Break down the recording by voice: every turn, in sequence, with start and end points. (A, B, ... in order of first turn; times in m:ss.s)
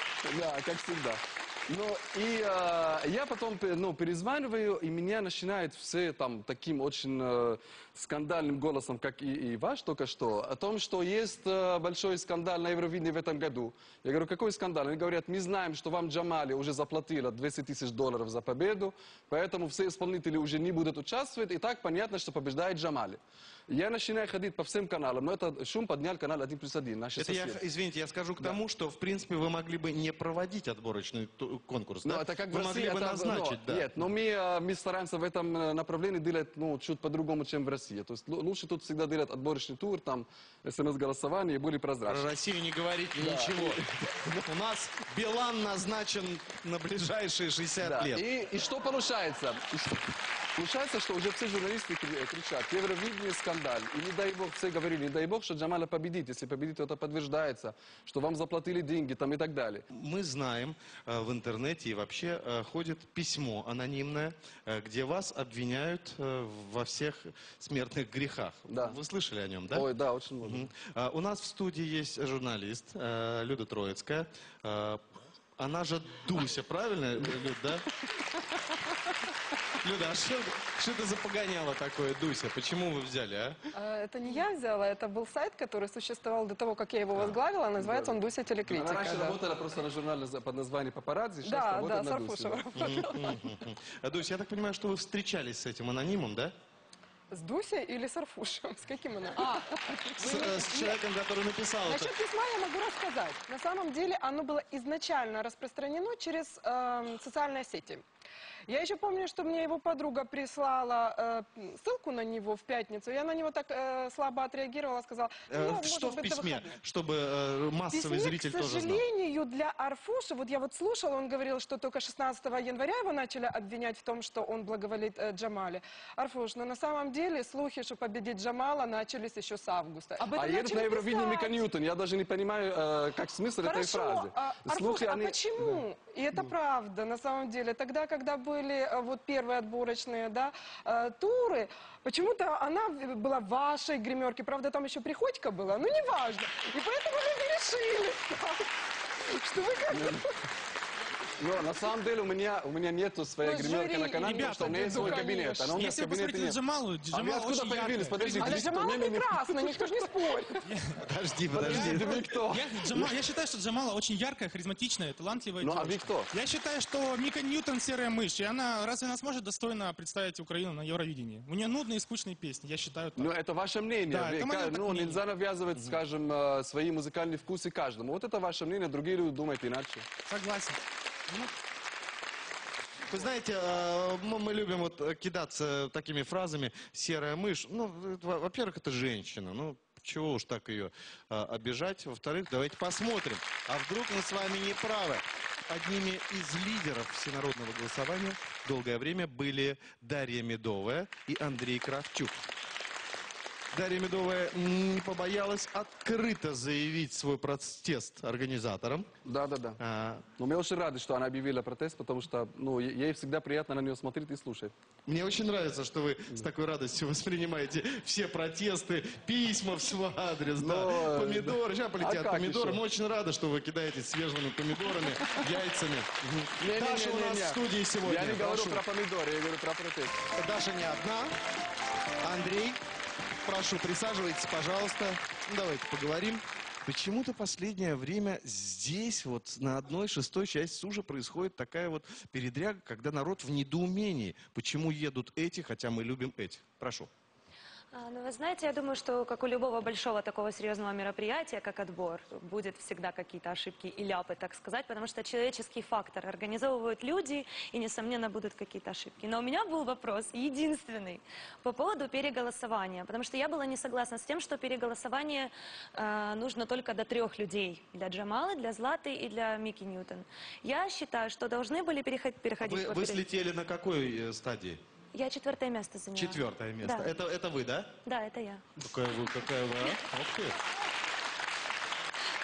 0:00.2-0:27.7 A
0:27.2-0:33.9 B
0:32.0-0:42.2 A
0:42.0-0:43.8 B
0:43.1-0:44.4 A
0:44.4-0:48.2 B
0:47.8-0:59.8 A
0:59.9-1:09.9 B
1:08.7-1:09.0 A
1:09.7-1:10.7 A
1:10.4-1:15.0 B
1:15.6-1:17.8 B
1:19.8-1:23.6 B
1:23.8-1:29.4 C
1:27.1-1:27.4 B
1:27.8-1:32.7 A
1:31.4-1:33.4 C
1:32.7-1:36.5 B
1:37.3-1:40.9 C
1:40.2-1:42.2 B
1:41.8-1:48.0 C
1:48.7-1:56.7 C
1:55.5-1:59.0 B
1:57.9-2:11.6 C
2:10.3-2:15.8 A
2:13.6-2:28.7 C
2:29.3-2:30.2 C
2:29.9-2:30.2 A
2:31.4-2:36.6 A
2:31.6-2:31.9 C
2:33.4-2:35.7 C
2:34.1-2:39.0 D
2:37.1-2:40.0 A
2:38.3-2:40.6 C
2:40.6-2:40.9 D
2:41.0-2:42.3 B
2:41.5-2:43.2 A
2:41.7-2:53.3 D
2:45.6-2:46.3 A
2:53.2-3:00.1 A
2:54.1-2:55.2 D
3:00.3-3:00.8 D
3:03.1-3:22.4 B
3:23.7-3:29.1 B
3:29.2-3:29.8 A
3:29.8-3:30.2 B
3:30.3-3:34.7 A
3:35.1-3:48.8 B
3:40.6-3:42.8 A
3:46.6-3:50.2 A
3:50.3-3:51.3 B
3:52.2-3:52.8 B
3:53.4-4:07.1 B
4:07.9-4:33.2 E
4:32.6-4:34.8 B
4:35.1-4:37.1 E
4:36.1-4:37.9 B
4:38.0-4:38.6 E
4:38.8-4:40.6 B